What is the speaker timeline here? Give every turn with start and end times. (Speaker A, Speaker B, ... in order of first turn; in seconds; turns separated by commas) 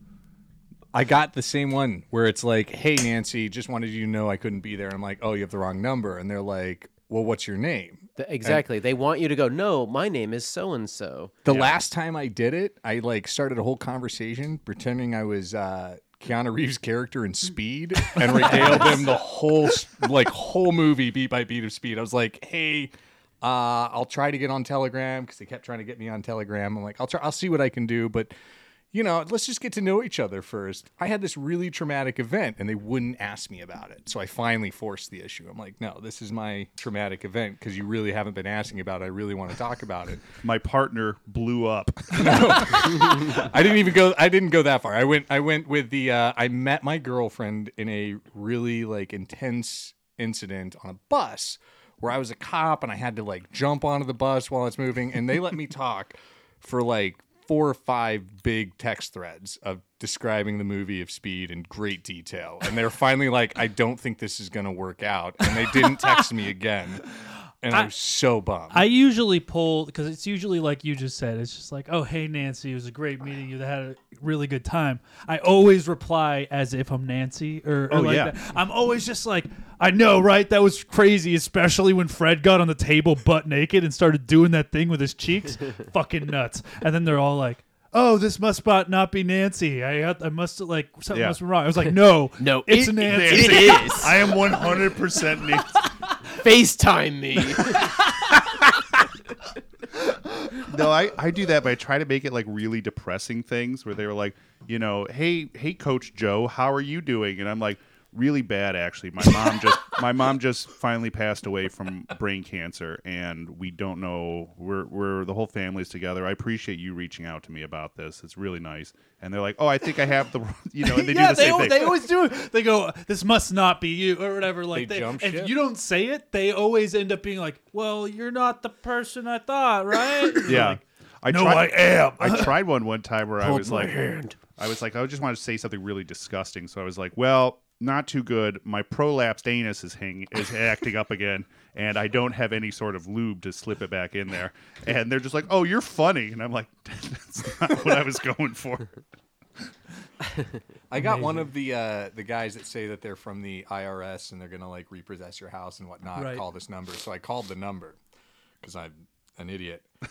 Speaker A: 0.9-8.6, Speaker B: 8.2-11.3, Speaker A: 11.4-28.3, Speaker C: 11.5-11.7, Speaker D: 18.2-19.1, Speaker A: 28.9-40.2, Speaker C: 40.4-43.0, Speaker A: 42.1-67.1, Speaker D: 65.8-66.2, Speaker A: 67.6-68.9, Speaker D: 68.7-94.0, Speaker C: 77.9-78.3, Speaker C: 91.1-91.4, Speaker B: 92.4-94.4, Speaker C: 93.0-95.8, Speaker B: 96.4-97.9, Speaker C: 100.5-122.1, Speaker D: 120.8-132.6, Speaker A: 124.7-125.5, Speaker C: 130.4-149.0, Speaker B: 133.4-134.4, Speaker A: 150.9-158.0, Speaker D: 150.9-151.5, Speaker D: 156.1-156.4, Speaker A: 158.6-159.9